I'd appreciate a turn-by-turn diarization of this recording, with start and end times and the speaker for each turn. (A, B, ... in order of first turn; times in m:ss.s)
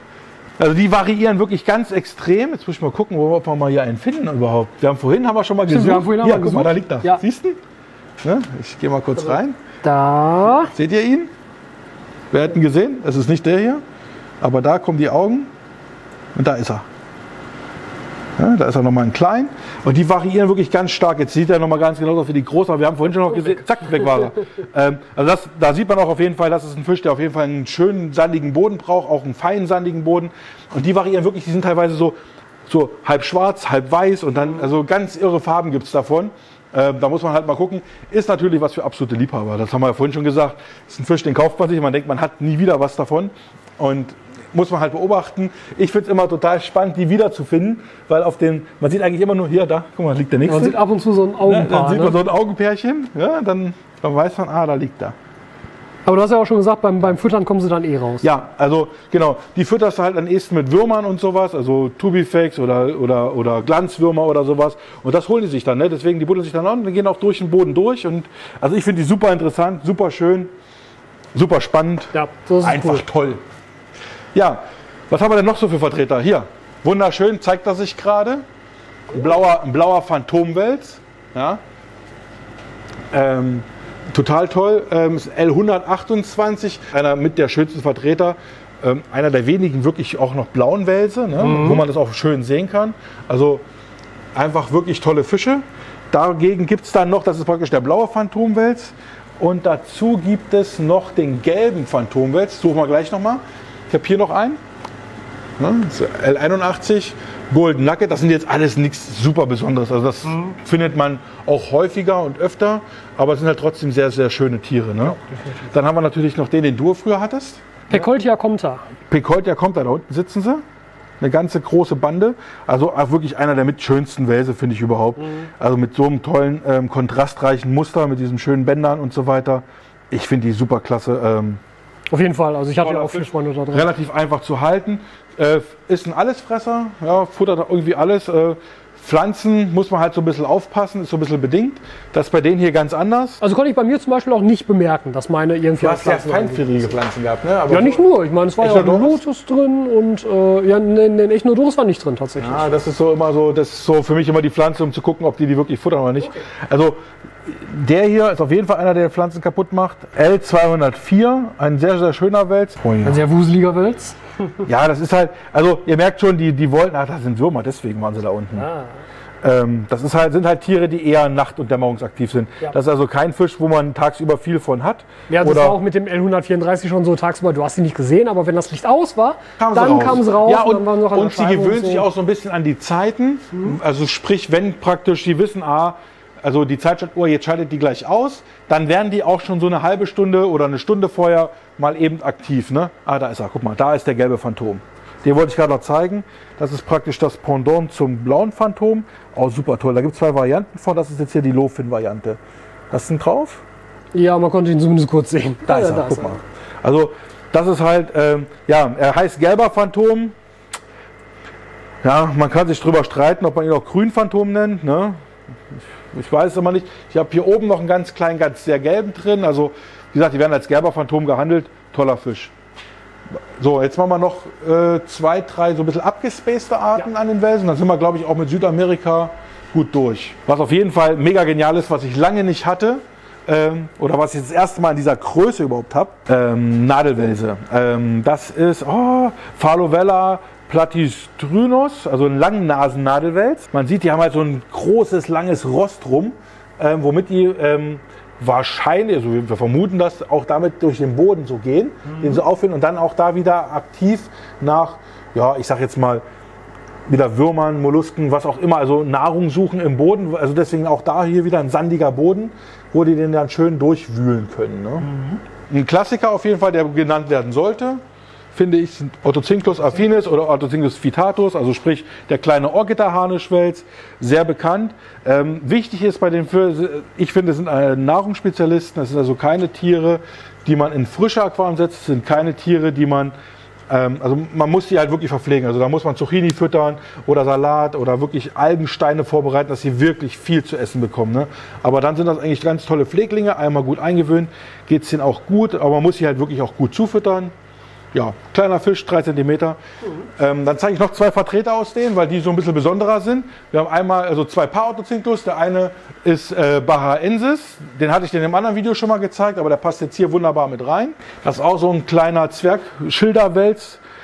0:00.6-0:07.6 A
0:05.7-0:07.2 B
0:08.2-0:09.6 A
0:09.8-0:10.7 B
0:10.4-0:11.3 A
0:12.3-0:13.8 A
0:14.4-0:15.5 A
0:16.3-0:16.8 A
0:18.4-0:32.2 A
0:32.7-0:50.8 A
0:50.4-0:52.2 B
0:51.4-0:55.1 A
0:56.0-0:58.3 B
0:58.2-1:10.5 A
1:11.3-1:13.4 A
1:12.1-1:13.0 B
1:14.3-1:18.4 A
1:19.1-1:21.6 A
1:23.1-1:33.6 A
1:31.4-1:31.8 B
1:34.3-1:44.6 A
1:45.6-1:58.0 A
1:57.9-1:58.8 B
1:59.1-2:00.6 A
2:01.2-2:11.6 A
2:05.2-2:05.5 B
2:12.1-2:13.9 B
2:12.8-2:23.4 A
2:23.4-2:26.9 B
2:25.8-2:28.0 A
2:27.7-2:32.7 B
2:28.6-2:29.2 A
2:32.4-2:43.2 A
2:43.0-2:44.6 B
2:44.6-2:48.7 A
2:48.6-2:48.9 B
2:49.4-2:55.8 A
2:55.3-3:02.0 B
2:59.6-3:22.4 A
3:22.9-3:23.6 A
3:24.1-3:26.4 B
3:25.6-3:30.3 A
3:32.0-3:35.2 A
3:35.7-3:42.5 A
3:43.6-4:16.2 A
4:17.1-4:25.1 A
4:25.7-4:28.0 A
4:28.5-4:43.3 A
4:43.9-4:57.5 A
4:58.1-5:14.0 A